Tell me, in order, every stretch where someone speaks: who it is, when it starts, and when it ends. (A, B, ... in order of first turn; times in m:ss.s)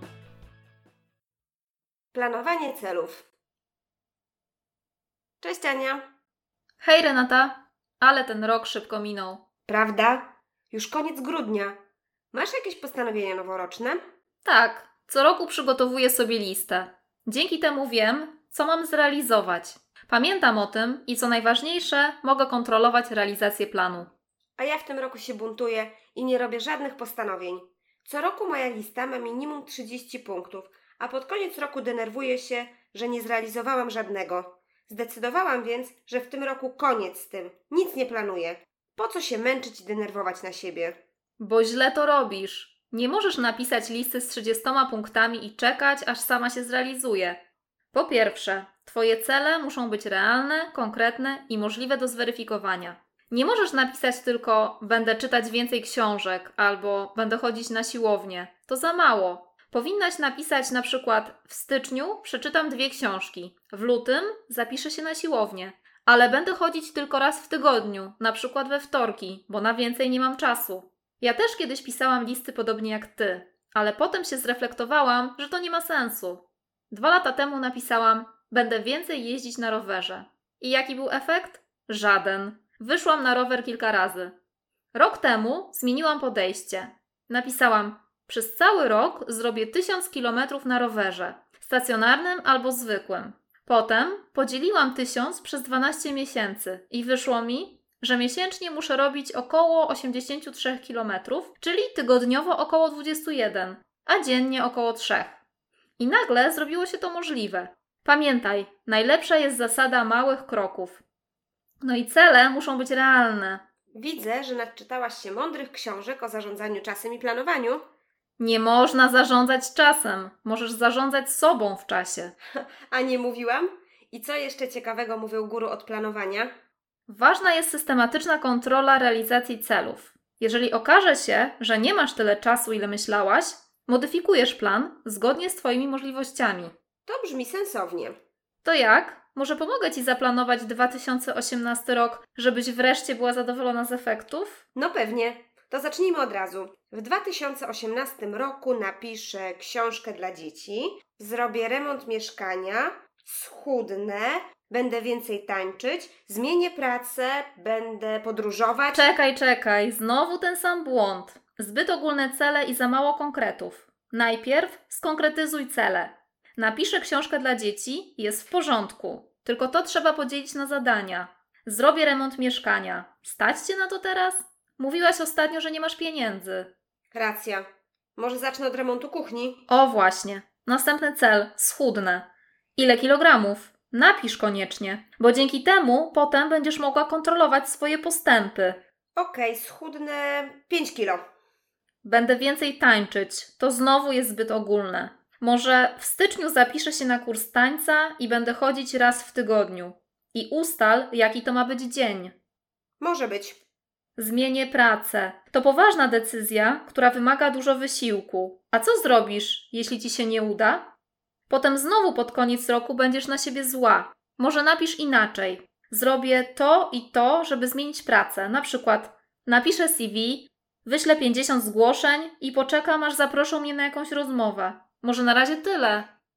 0:02.1-0:03.3 A
0:05.4-0:06.0 A
0:06.8-0:09.4 B
0:09.7-0:11.8 A
0:12.3-0:14.0 A
0:14.4-0:24.1 B
0:24.6-0:41.0 A
0:41.4-0:47.4 B
0:47.9-1:24.3 B
1:24.9-1:45.4 B
1:46.0-1:51.0 B
1:51.8-1:53.7 B
1:53.9-1:57.8 A
1:58.4-2:02.3 B
2:02.6-2:06.5 A
2:07.1-2:16.7 B
2:17.1-2:18.2 A
2:18.6-2:24.6 B
2:24.8-2:39.1 A
2:38.9-2:56.7 B
2:57.1-2:59.6 A
2:59.7-3:08.8 B
3:09.2-3:11.2 A
3:12.0-3:22.3 B
3:23.0-3:23.6 A
3:24.2-3:30.9 B
3:31.5-3:46.1 B